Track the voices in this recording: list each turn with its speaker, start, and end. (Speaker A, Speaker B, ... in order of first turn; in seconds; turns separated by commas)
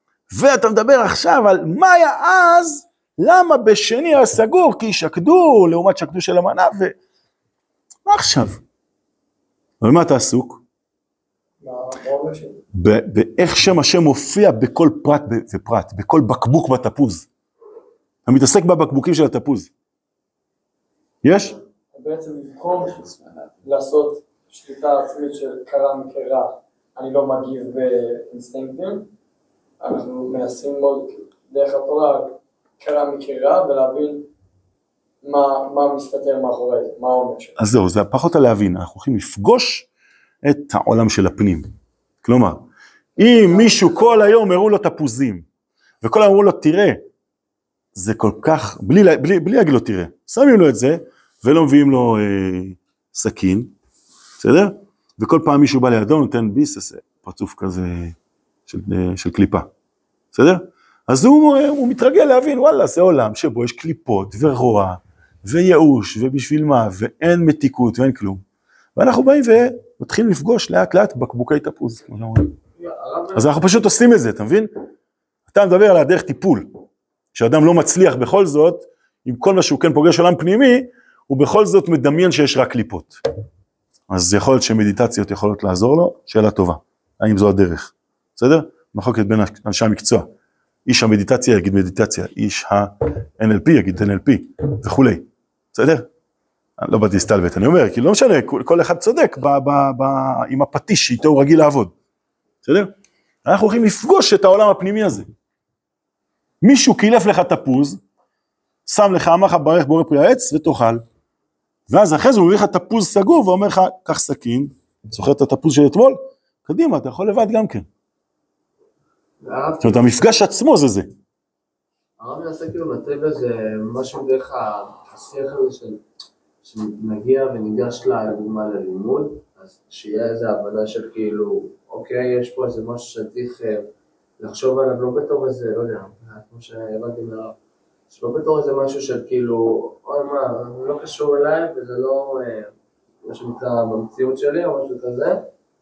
Speaker A: 0.3-6.9, Speaker A: 8.1-8.6, Speaker A: 9.8-10.6, Speaker B: 11.6-12.6, Speaker A: 12.7-17.3, Speaker A: 18.2-19.7, Speaker A: 21.2-21.5, Speaker B: 21.9-29.1, Speaker B: 29.8-34.3, Speaker B: 35.2-37.5, Speaker A: 37.6-39.9, Speaker A: 40.4-41.7, Speaker A: 42.2-42.6, Speaker A: 43.2-45.5, Speaker A: 46.0-47.0, Speaker A: 47.9-53.7, Speaker A: 54.4-58.1, Speaker A: 58.7-59.7, Speaker A: 60.3-68.4, Speaker A: 69.0-72.5, Speaker C: 72.8-73.8, Speaker A: 73.3-74.7, Speaker A: 75.5-76.7, Speaker A: 77.3-83.2, Speaker A: 84.1-90.3, Speaker A: 90.8-96.1, Speaker A: 96.8-101.9, Speaker A: 102.6-102.9, Speaker A: 103.4-105.3, Speaker A: 106.6-108.0, Speaker A: 108.8-111.0, Speaker A: 111.9-117.9, Speaker C: 119.4-120.4, Speaker A: 119.8-121.1, Speaker C: 122.2-126.0, Speaker C: 126.6-133.9, Speaker C: 134.4-137.6, Speaker C: 138.1-142.7, Speaker C: 143.2-145.4